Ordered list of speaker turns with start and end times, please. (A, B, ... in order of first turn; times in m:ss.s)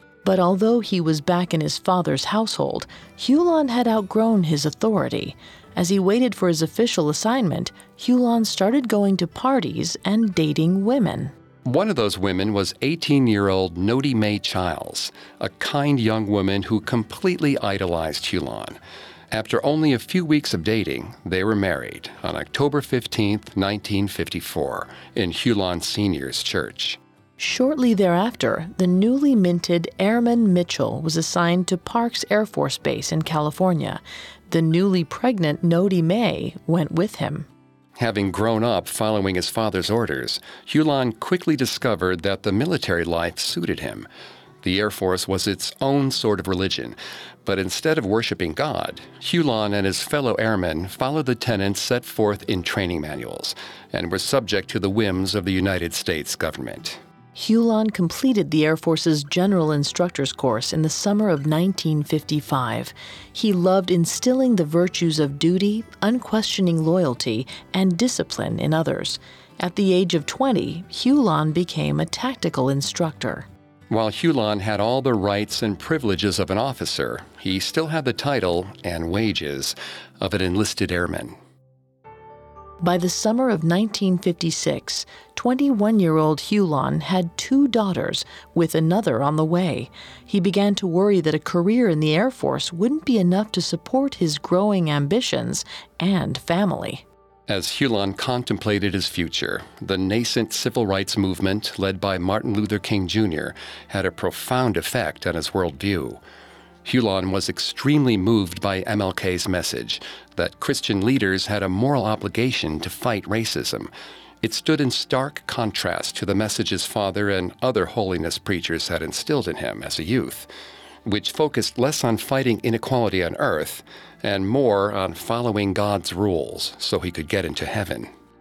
0:00.2-0:11.3 A
0:11.6-0:18.8 B
0:19.3-0:27.0 B
0:27.4-0:37.5 A
0:38.0-0:44.1 B
0:44.6-0:57.0 B
0:57.4-1:13.5 A
1:13.9-1:21.4 B
1:22.8-1:37.0 A
1:37.5-1:46.2 B
1:46.8-1:53.9 B
1:54.4-2:00.5 B
2:01.0-2:08.1 B